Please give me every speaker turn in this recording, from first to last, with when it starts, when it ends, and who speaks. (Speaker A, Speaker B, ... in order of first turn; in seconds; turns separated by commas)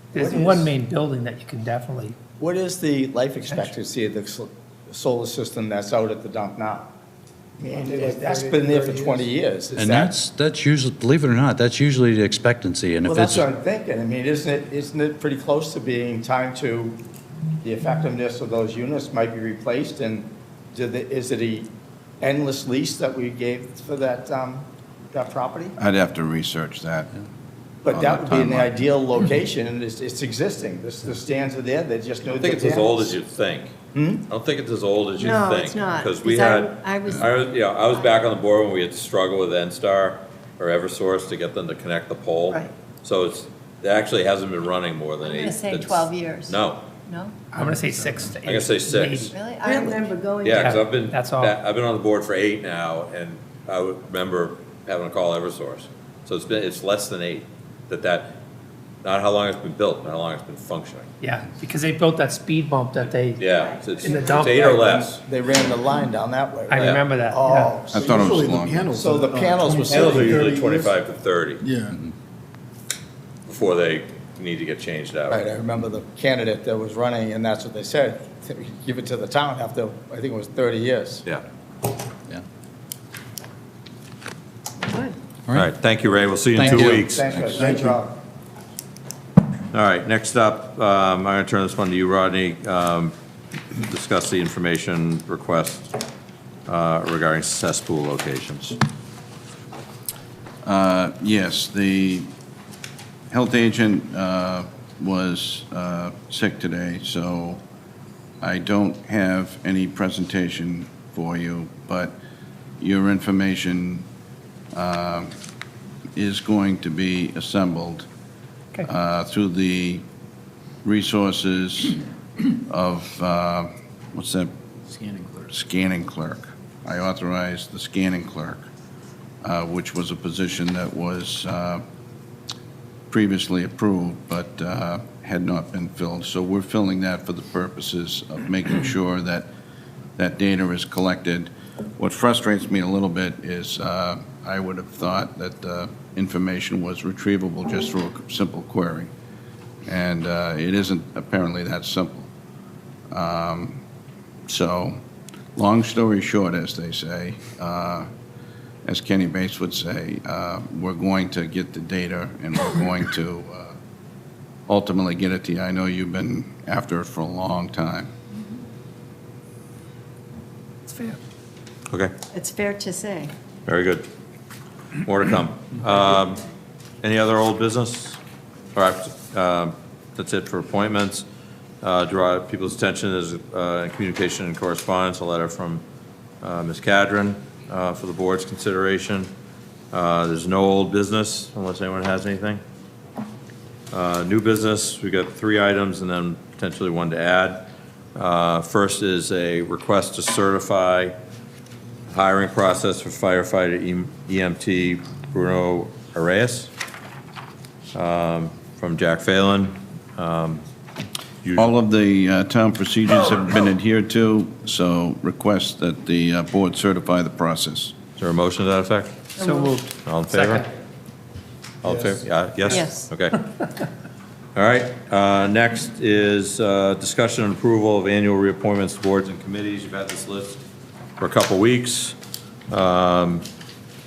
Speaker A: 0.1-2.2, Speaker B: 0.1-0.7, Speaker B: 2.4-6.9, Speaker B: 7.6-10.1, Speaker C: 7.7-9.3, Speaker D: 9.7-13.5, Speaker B: 13.0-17.0, Speaker B: 17.6-25.8, Speaker E: 25.8-27.1, Speaker B: 27.8-33.2, Speaker E: 27.9-28.7, Speaker F: 32.4-33.7, Speaker B: 33.9-34.2, Speaker F: 34.3-46.9, Speaker G: 35.2-38.1, Speaker G: 45.2-47.5, Speaker A: 47.5-49.3, Speaker C: 47.5-48.3, Speaker F: 48.4-49.3, Speaker G: 49.3-50.8, Speaker F: 50.4-58.4, Speaker A: 50.4-51.5, Speaker F: 59.0-61.1, Speaker A: 61.2-65.0, Speaker F: 63.4-65.2, Speaker G: 63.6-64.5, Speaker B: 64.8-67.9, Speaker A: 66.7-67.8, Speaker F: 66.7-67.0, Speaker E: 67.9-68.9, Speaker C: 67.9-70.9, Speaker B: 69.0-70.8, Speaker F: 69.9-71.6, Speaker C: 71.6-72.0, Speaker F: 73.5-75.5, Speaker B: 75.3-81.2, Speaker G: 84.8-85.2, Speaker F: 85.5-87.2, Speaker D: 86.5-87.7, Speaker B: 86.6-88.2, Speaker C: 87.5-88.0, Speaker F: 89.7-93.1, Speaker F: 93.7-95.9, Speaker F: 96.7-98.8, Speaker E: 100.6-102.3, Speaker E: 103.3-107.6, Speaker E: 108.4-112.2, Speaker E: 112.8-114.1, Speaker E: 114.7-115.3, Speaker E: 116.2-118.1, Speaker E: 118.8-120.0, Speaker E: 120.8-122.0, Speaker E: 122.5-124.5, Speaker E: 125.5-128.7, Speaker E: 129.4-131.8, Speaker E: 133.1-139.5, Speaker E: 140.2-149.1, Speaker E: 149.8-152.3, Speaker E: 153.1-153.8, Speaker E: 154.5-155.0, Speaker E: 155.6-158.1, Speaker E: 158.8-163.8, Speaker E: 164.7-168.1, Speaker G: 172.3-173.3, Speaker F: 173.7-174.1, Speaker F: 175.0-176.4, Speaker F: 177.0-178.2, Speaker F: 178.7-181.2, Speaker F: 181.8-185.8, Speaker F: 186.4-189.3, Speaker F: 189.9-192.6, Speaker F: 193.9-201.2, Speaker F: 202.1-206.7, Speaker F: 207.9-210.6, Speaker F: 211.4-211.7, Speaker E: 211.6-217.9, Speaker F: 218.2-219.3, Speaker A: 219.4-220.7, Speaker G: 219.4-219.7, Speaker F: 220.0-220.6, Speaker F: 221.8-223.4, Speaker C: 221.8-222.2, Speaker G: 222.7-223.1, Speaker F: 224.6-230.6, Speaker F: 231.2-232.2, Speaker F: 232.7-233.4